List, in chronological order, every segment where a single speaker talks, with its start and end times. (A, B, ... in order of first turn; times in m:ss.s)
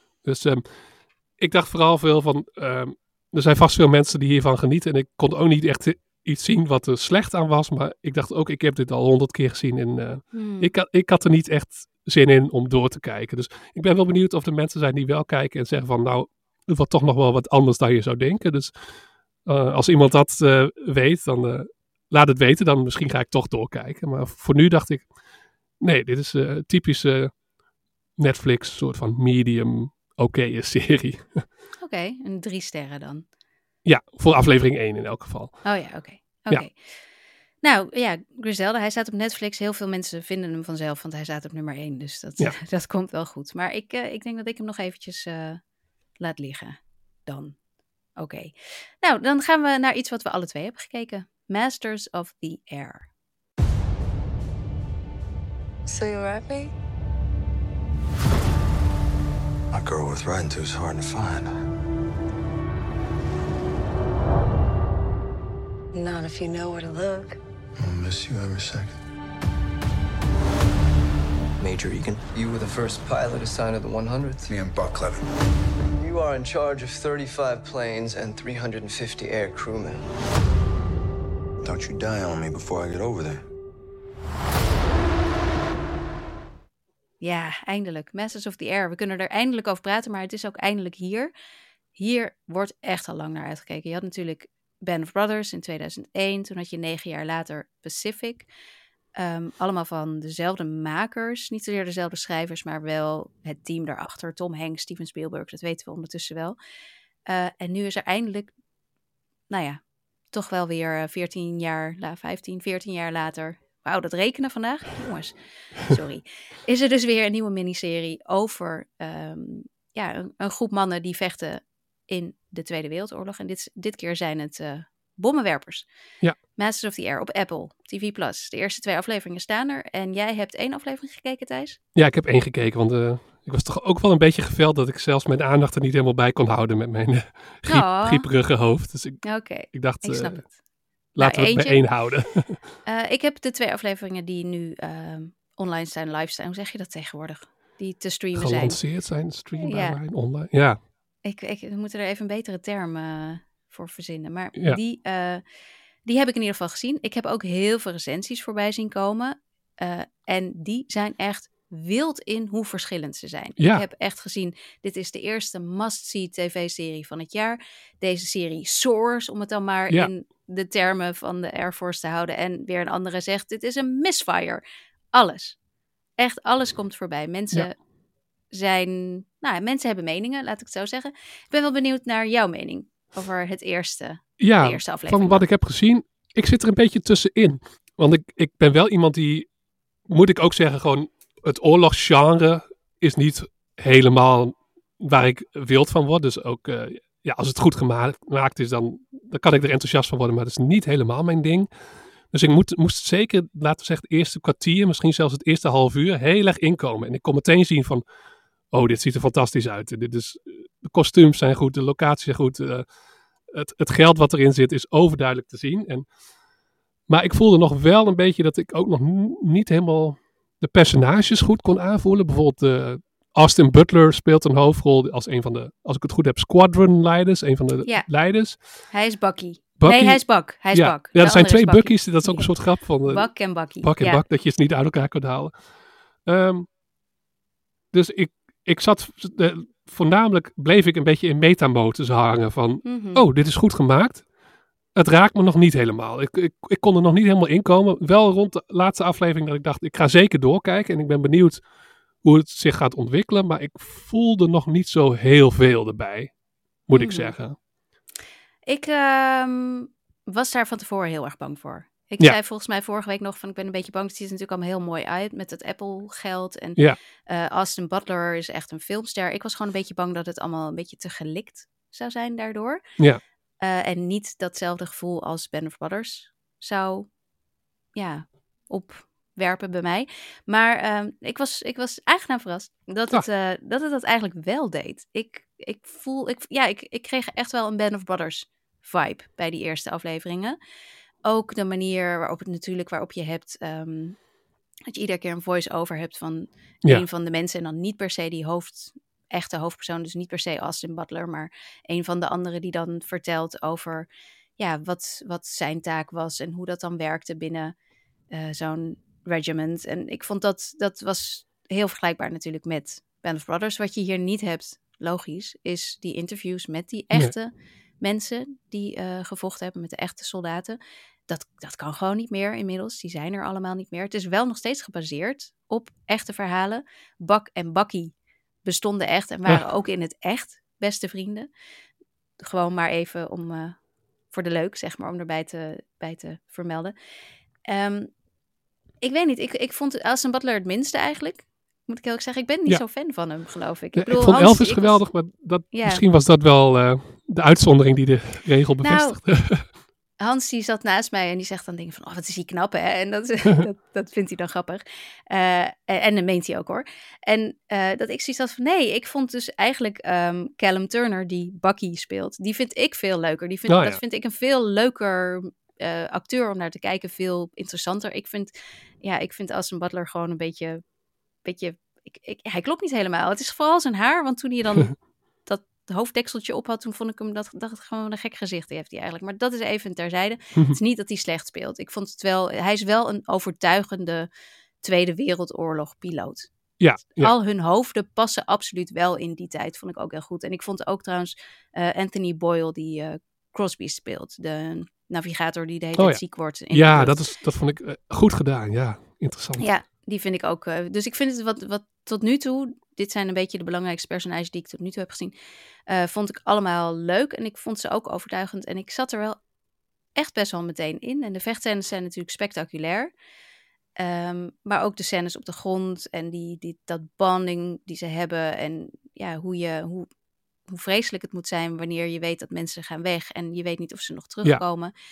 0:00.2-0:00.7 A
0:01.4-0:18.7 A
0:10.3-0:10.7 B
0:19.4-0:25.1 A
0:25.8-0:27.3 A
0:28.2-0:31.4 A
0:31.8-0:33.2 B
0:33.8-0:35.8 A
0:35.6-0:37.0 B
0:37.6-0:45.6 B
0:46.2-0:47.6 B
0:48.2-0:53.1 B
0:55.9-0:56.7 C
0:59.7-1:01.5 D
1:05.9-1:07.4 C
1:07.8-1:09.0 D
1:11.6-1:14.6 E
1:14.5-1:15.3 D
1:16.0-1:20.1 E
1:21.6-1:23.4 D
1:27.2-1:31.3 B
1:32.0-1:38.5 B
1:39.2-1:46.6 B
1:47.3-1:48.5 B
1:49.5-1:49.8 B
1:50.3-2:05.8 B
2:06.6-2:11.8 B
2:11.9-2:20.4 A
2:17.7-2:18.2 B
2:19.2-2:20.5 B
2:21.1-2:22.6 A
2:21.2-2:21.9 B
2:22.8-2:28.8 B
2:28.3-2:30.8 A
2:29.6-2:30.0 B
2:31.2-2:35.4 B
2:36.0-2:54.6 B
2:43.6-2:43.8 A
2:55.1-2:55.6 B
2:56.2-2:57.7 B
2:58.5-3:05.4 B
3:04.4-3:09.5 A
3:10.1-3:21.7 A
3:22.3-3:28.0 A
3:28.7-3:32.8 A
3:33.5-3:36.0 A
3:37.1-3:48.6 A
3:48.9-3:52.5 B
3:49.8-3:55.5 A
3:53.0-3:54.2 B
3:56.2-3:56.7 A
3:57.9-4:04.2 A
4:02.8-4:03.2 B
4:04.9-4:11.6 A
4:12.2-4:16.3 A
4:16.9-4:17.6 A
4:16.9-4:17.3 B
4:18.7-4:32.8 B
4:33.6-4:37.1 B
4:37.9-4:50.6 B
4:51.2-4:54.2 B
4:54.9-5:04.1 B
5:04.6-5:07.7 B
5:08.3-5:28.1 B
5:28.6-5:31.5 B
5:32.4-5:33.8 B
5:34.3-5:36.9 B
5:37.7-5:38.1 B
5:39.0-5:45.1 B
5:43.9-5:49.6 A
5:45.7-5:46.0 B
5:48.8-5:49.2 B
5:50.2-6:08.5 B
6:03.7-6:04.0 A
6:09.0-6:10.8 B
6:11.4-6:24.3 B
6:24.8-6:26.5 B
6:26.8-6:27.3 A
6:27.2-6:37.3 B
6:36.0-6:39.7 A
6:39.6-6:45.3 B
6:45.9-6:49.4 B
6:50.2-6:53.1 B
6:54.0-7:00.1 B
7:00.7-7:04.9 B